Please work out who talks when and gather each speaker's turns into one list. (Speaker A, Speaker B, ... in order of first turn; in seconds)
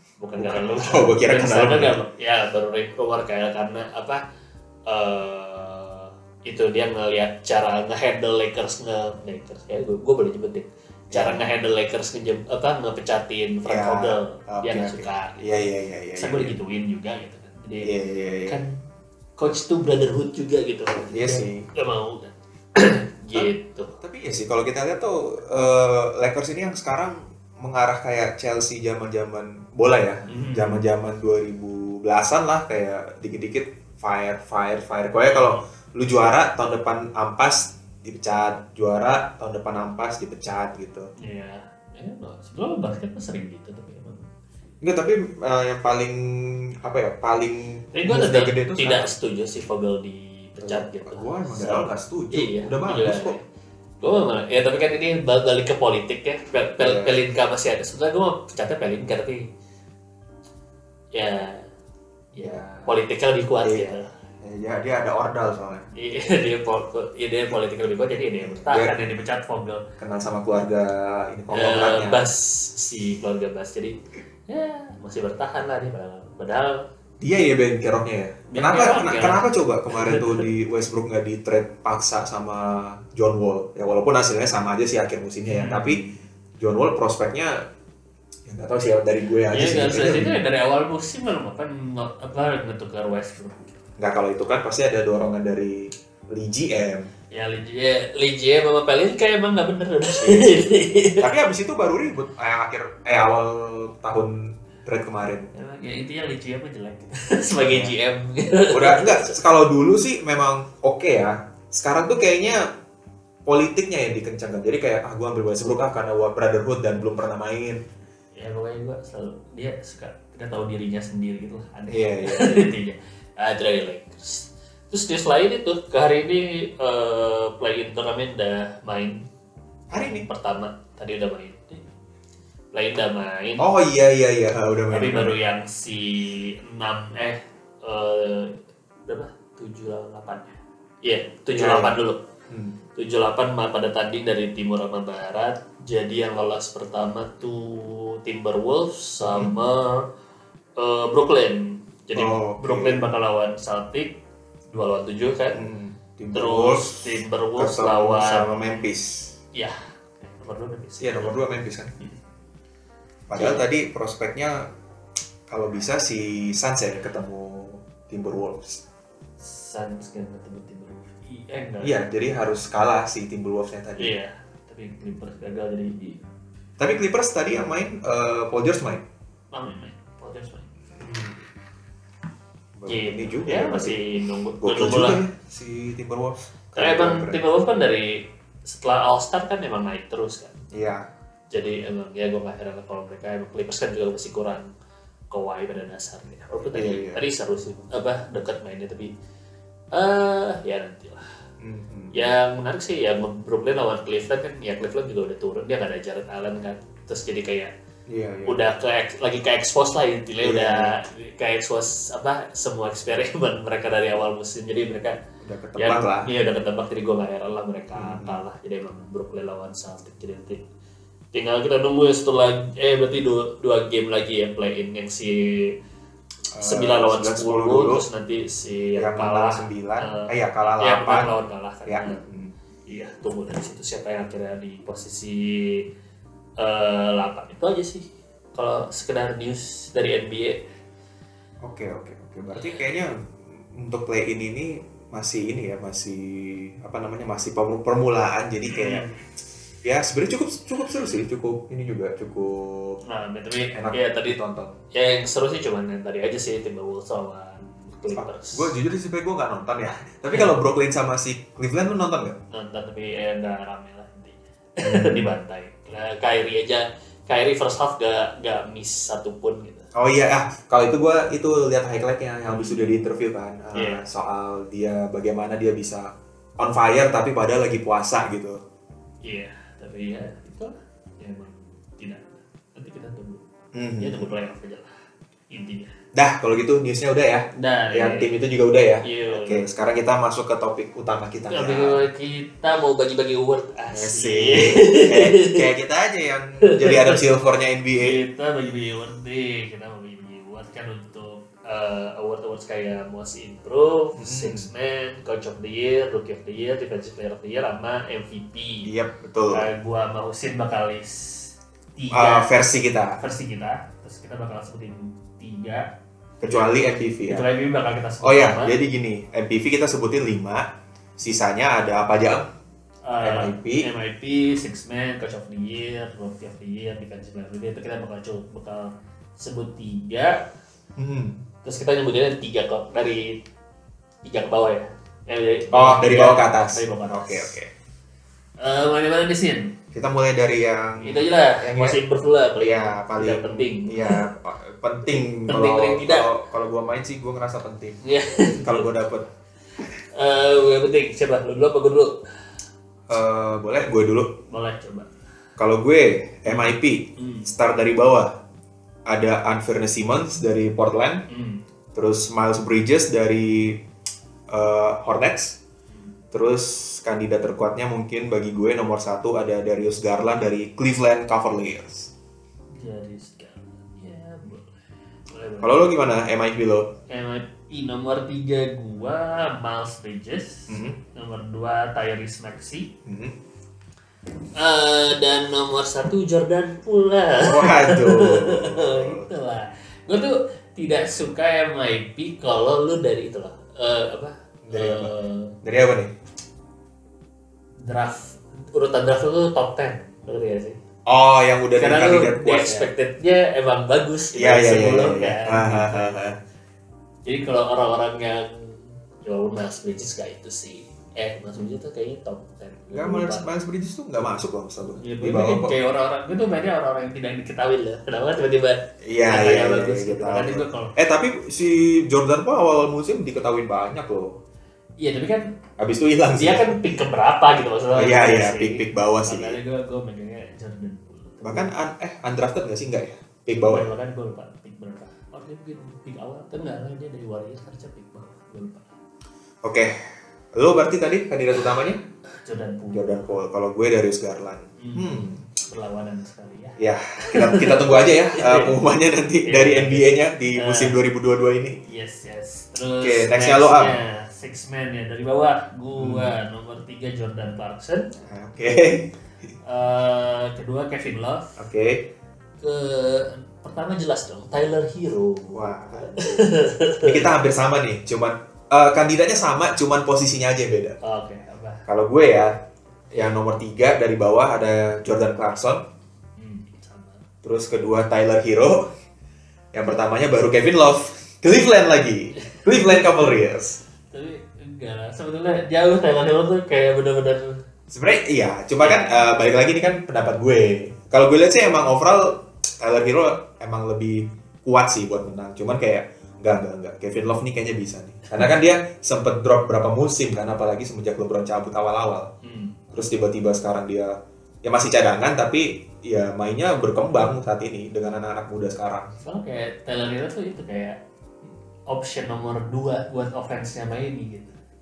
Speaker A: 0.2-4.2, 4.9-15.5, 16.1-17.9, 18.5-18.8, 19.4-24.0, 30.3-30.8, 35.2-35.6, 41.2-44.3, 47.9-53.4, 54.0-59.5, 61.1-61.7, 62.3-64.1, 65.9-69.8, 71.5-76.9, 78.5-80.4, 85.5-86.1, 89.5-93.8, 97.3-101.3, 105.5-109.4, 118.3-129.2, 129.9-131.8, 132.7-133.7, 134.9-138.6, 139.1-142.2, 142.9-150.1, 150.8-155.6, 156.3-158.9, 159.5-161.4, 163.3-163.6, 169.4-171.9, 173.9-176.2, 179.5-180.7, 182.8-185.2, 186.7-190.6, 191.5-194.7, 195.3-199.1, 199.9-201.2, 202.1-207.7, 208.4-215.2, 215.8-220.6, 221.3-225.7, 226.6-232.2, 232.8-235.8, 236.6-240.6, 242.5-242.8, 248.7-249.2, 253.0-254.4, 254.9-258.7, 262.5-269.9, 272.5-272.8, 273.7-274.0, 279.2-283.4, 284.0-284.9, 285.5-285.9, 287.5-288.3, 289.0-289.7, 291.5-295.6, 296.6-297.2, 298.0-308.9, 309.5-312.6, 313.2-315.9, 317.3-318.8, 323.0-330.5, 331.6-333.4, 334.2-337.6, 338.6-339.8, 341.0-344.2, 345.2-346.3, 348.0-348.9, 350.1-352.2, 354.5-355.1, 356.5-357.5, 361.3-361.6, 365.9-366.1, 372.7-374.7, 375.3-375.9, 377.1-382.9, 384.6-395.6, 397.8-400.8, 401.8-406.3, 407.2-413.4, 415.0-420.9, 425.0-425.5, 426.4-431.7, 433.6-438.9, 442.3-443.3, 444.8-448.8, 449.4-450.9, 451.8-458.1, 459.6-461.6, 462.6-467.4, 471.0-471.9, 476.4-477.2, 482.4-483.3, 484.1-487.6, 488.8-489.3, 502.4-502.8, 509.2-511.0, 511.9-514.6
Speaker B: 0.4-1.9, 11.1-11.4, 13.7-16.5, 17.8-18.6, 21.1-21.6, 23.3-41.1, 44.8-49.1, 50.6-53.4, 56.8-57.1, 62.4-62.9, 63.6-63.9, 64.4-65.9, 68.4-68.9, 70.0-72.2, 77.2-87.6, 88.5-90.3, 94.0-97.1, 100.2-105.5, 107.6-107.9, 108.7-112.7, 113.5-117.8, 121.9-122.7, 129.9-130.3, 133.6-135.3, 141.5-141.9, 142.5-142.8, 149.3-149.5, 152.1-153.0, 155.5-159.3, 161.0-161.9, 163.3-164.7, 165.5-168.8, 171.8-174.1, 176.8-179.0, 181.0-181.3, 182.8-184.0, 184.6-187.4, 190.7-191.1, 196.7-197.2, 201.6-202.1, 208.1-208.6, 210.4-210.9, 215.4-216.3, 217.9-218.4, 226.5-228.0, 229.0-231.3, 231.8-232.5, 241.6-249.1, 249.8-253.0, 253.7-254.8, 258.1-262.4, 264.8-265.3, 269.9-278.6, 283.7-284.3, 286.1-292.0, 293.9-298.2, 304.2-304.7, 308.8-309.6, 312.1-313.2, 316.4-317.4, 318.2-322.5, 323.2-323.9, 331.0-331.4, 335.7-337.7, 339.9-342.0, 342.6-348.0, 348.6-349.2, 353.1-354.4, 355.6-358.4, 359.1-361.2, 361.9-363.8, 364.5-365.6, 366.3-372.1, 375.6-376.9, 380.7-381.0, 383.1-383.4, 387.4-389.3, 394.6-396.1, 401.1-402.9, 404.3-406.4, 412.9-415.7, 419.0-424.4, 425.8-426.8, 427.9-429.6, 431.4-433.9, 439.6-439.9, 440.5-442.0, 442.9-445.4, 446.8-451.8, 453.0-454.0, 455.9-456.3, 458.2-459.1, 461.6-462.1, 465.5-466.4, 467.0-471.0, 471.9-472.6, 473.1-475.8, 477.4-478.9, 479.7-483.8, 487.9-502.3, 502.9-509.1